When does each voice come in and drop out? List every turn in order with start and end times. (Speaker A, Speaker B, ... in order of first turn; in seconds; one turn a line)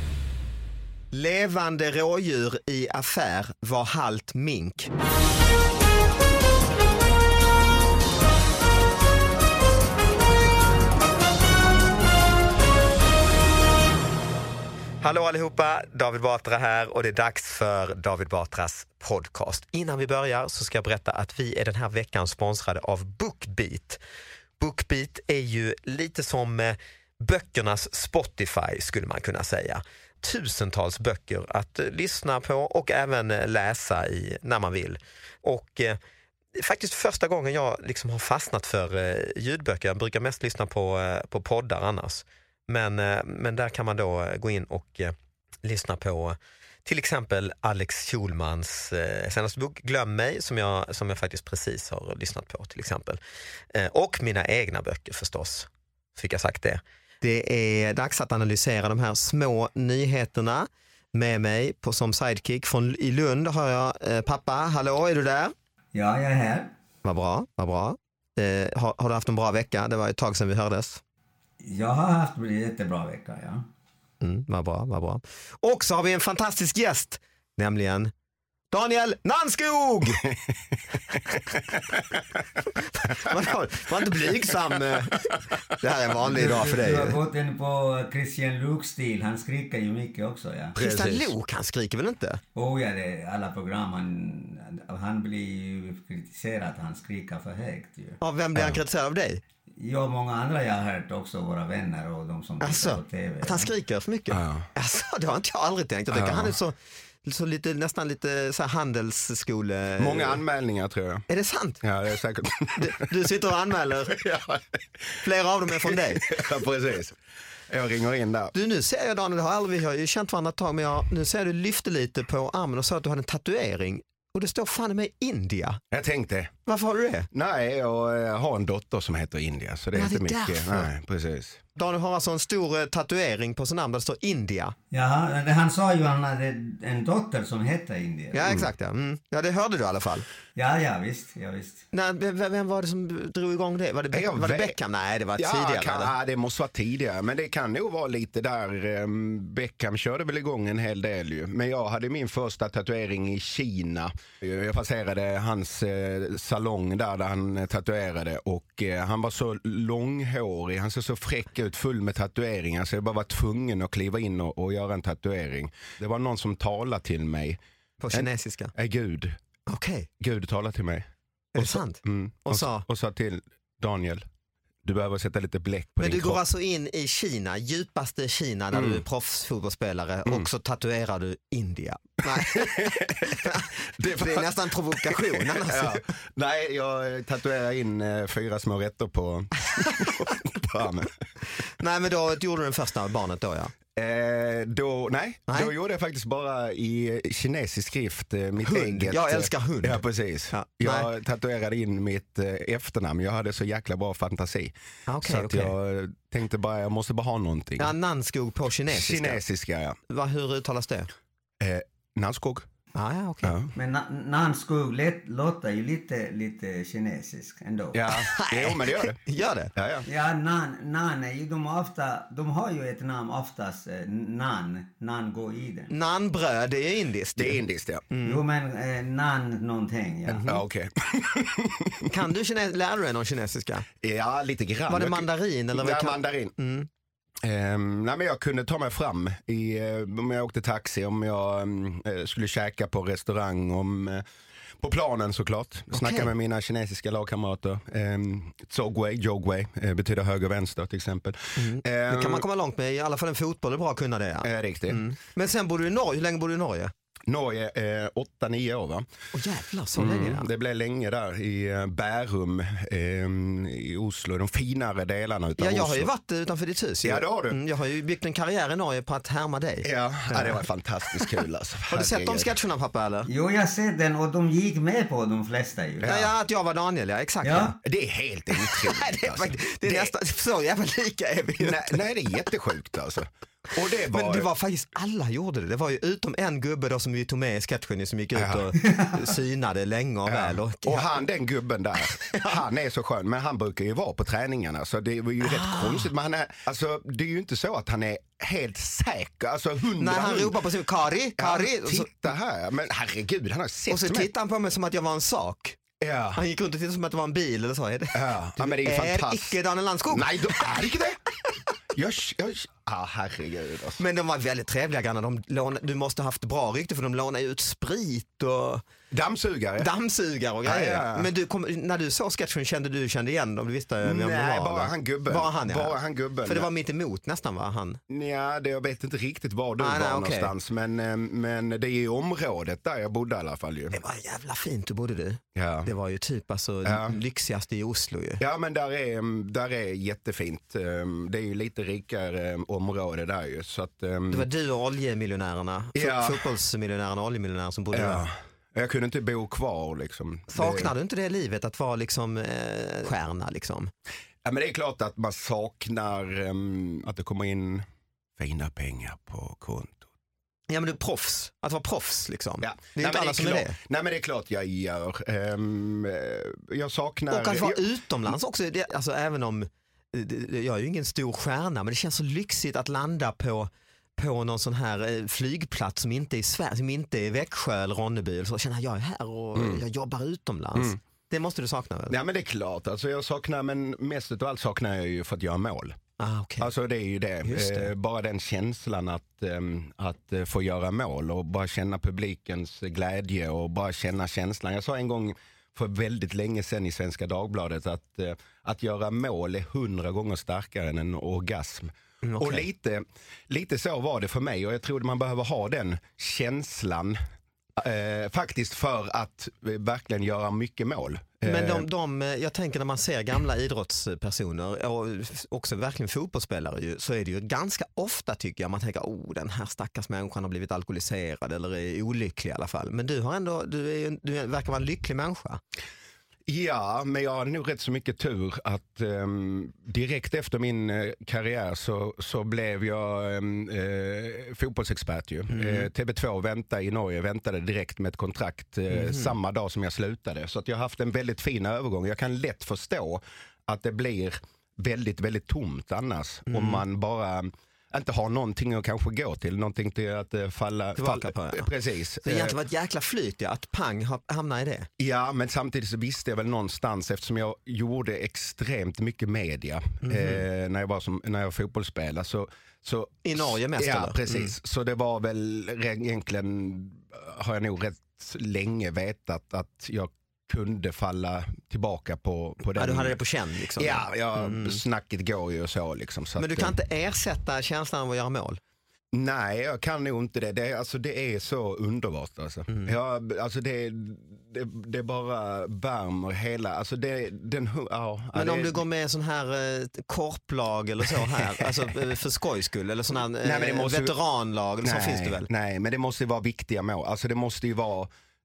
Speaker A: 1.1-4.9
Speaker A: 15.0-24.0
Speaker A: 24.6-36.0
Speaker A: 36.5-53.2
Speaker A: 53.7-65.5
Speaker B: 65.9-66.7
Speaker A: 67.0-71.0
Speaker B: 71.6-73.7
Speaker A: 74.2-78.1
Speaker A: 78.7-80.3
Speaker C: 80.2-82.2
Speaker A: 81.2-81.8
Speaker A: 82.8-87.2
Speaker C: 83.0-83.5
Speaker C: 84.2-85.5
Speaker B: 86.2-90.8
Speaker C: 90.8-91.3
Speaker A: 90.8-92.4
Speaker B: 92.6-98.2
Speaker A: 98.2-99.4
Speaker B: 99.8-103.7
Speaker A: 102.6-110.4
Speaker C: 104.3-104.7
Speaker C: 106.1-106.5
Speaker C: 110.0-111.3
Speaker A: 111.3-111.8
Speaker C: 111.8-113.3
Speaker A: 112.8-114.2
Speaker C: 114.1-118.5
Speaker A: 115.2-116.4
Speaker A: 118.5-125.8
Speaker C: 125.9-126.5
Speaker A: 126.7-127.3
Speaker C: 127.3-131.6
Speaker A: 129.9-130.9
Speaker A: 131.8-134.8
Speaker B: 134.9-138.6
Speaker A: 138.3-140.3
Speaker B: 140.6-141.8
Speaker A: 141.9-146.1
Speaker C: 144.1-144.8
Speaker C: 145.4-167.6
Speaker A: 168.0-168.7
Speaker C: 168.1-169.4
Speaker A: 169.7-170.1
Speaker C: 170.2-174.2
Speaker A: 171.5-172.9
Speaker C: 174.8-176.4
Speaker A: 176.0-186.0
Speaker C: 178.7-179.0
Speaker C: 182.3-184.5
Speaker C: 185.1-191.2
Speaker A: 189.7-190.4
Speaker A: 191.6-193.7
Speaker C: 193.9-207.9
Speaker A: 195.5-195.7
Speaker A: 198.6-201.1
Speaker A: 205.1-205.7
Speaker A: 207.8-209.4
Speaker C: 208.9-210.0
Speaker A: 210.1-211.1
Speaker C: 211.6-212.7
Speaker A: 212.9-213.6
Speaker C: 213.4-213.7
Speaker B: 213.8-218.1
Speaker C: 217.9-219.2
Speaker A: 218.1-219.7
Speaker C: 219.7-220.1
Speaker B: 220.1-225.9
Speaker A: 225.9-227.6
Speaker C: 227.3-228.0
Speaker A: 228.1-228.4
Speaker B: 228.2-230.5
Speaker A: 230.3-230.6
Speaker C: 230.3-232.1
Speaker A: 232.1-233.9
Speaker C: 234.0-236.5
Speaker A: 234.9-236.9
Speaker C: 237.4-244.2
Speaker C: 244.8-252.4
Speaker A: 245.9-246.3
Speaker A: 251.6-256.9
Speaker C: 254.4-255.1
Speaker C: 257.3-259.1
Speaker A: 259.3-260.5
Speaker C: 260.0-266.1
Speaker A: 265.6-270.6
Speaker C: 267.0-267.6
Speaker C: 269.8-272.6
Speaker A: 271.9-273.3
Speaker B: 273.3-276.2
Speaker C: 276.0-276.3
Speaker A: 276.1-277.7
Speaker B: 277.4-277.8
Speaker C: 277.8-280.1
Speaker A: 278.5-282.0
Speaker C: 281.6-284.5
Speaker A: 284.1-291.2
Speaker C: 288.4-288.7
Speaker B: 288.8-289.2
Speaker C: 290.3-300.6
Speaker A: 292.2-292.6
Speaker A: 295.4-296.1
Speaker A: 300.0-302.1
Speaker C: 301.4-304.3
Speaker A: 303.9-305.8
Speaker C: 306.0-306.4
Speaker A: 306.4-310.8
Speaker C: 308.1-309.6
Speaker C: 310.1-311.2
Speaker C: 311.9-314.0
Speaker A: 314.0-318.8
Speaker C: 319.1-319.9
Speaker A: 319.8-328.0
Speaker C: 320.6-321.3
Speaker C: 324.0-326.7
Speaker C: 328.1-334.0
Speaker A: 329.8-330.5
Speaker A: 333.9-338.4
Speaker C: 335.6-335.9
Speaker C: 336.9-337.2
Speaker C: 338.4-344.5
Speaker A: 344.3-348.3
Speaker C: 345.9-346.5
Speaker C: 347.9-350.9
Speaker A: 350.5-353.9
Speaker C: 354.4-357.9
Speaker C: 358.4-360.1
Speaker A: 360.7-363.8
Speaker C: 362.6-367.8
Speaker A: 367.3-382.2
Speaker C: 379.6-379.8
Speaker C: 382.1-386.0
Speaker A: 386.2-386.7
Speaker C: 386.6-407.2
Speaker A: 387.4-387.9
Speaker A: 402.2-402.7
Speaker C: 407.8-411.9
Speaker A: 411.4-425.6
Speaker C: 426.5-452.6
Speaker A: 435.5-435.9
Speaker A: 438.9-439.4
Speaker A: 446.5-446.8
Speaker A: 451.0-451.7
Speaker A: 452.2-454.9
Speaker C: 455.0-473.2
Speaker A: 460.0-460.4
Speaker A: 463.2-464.5
Speaker A: 472.8-474.8
Speaker C: 473.8-476.8
Speaker A: 476.4-478.6
Speaker C: 479.1-488.8
Speaker A: 482.7-482.9
Speaker A: 488.3-495.5
Speaker C: 491.1-491.8
Speaker C: 493.4-494.2
Speaker C: 494.8-498.1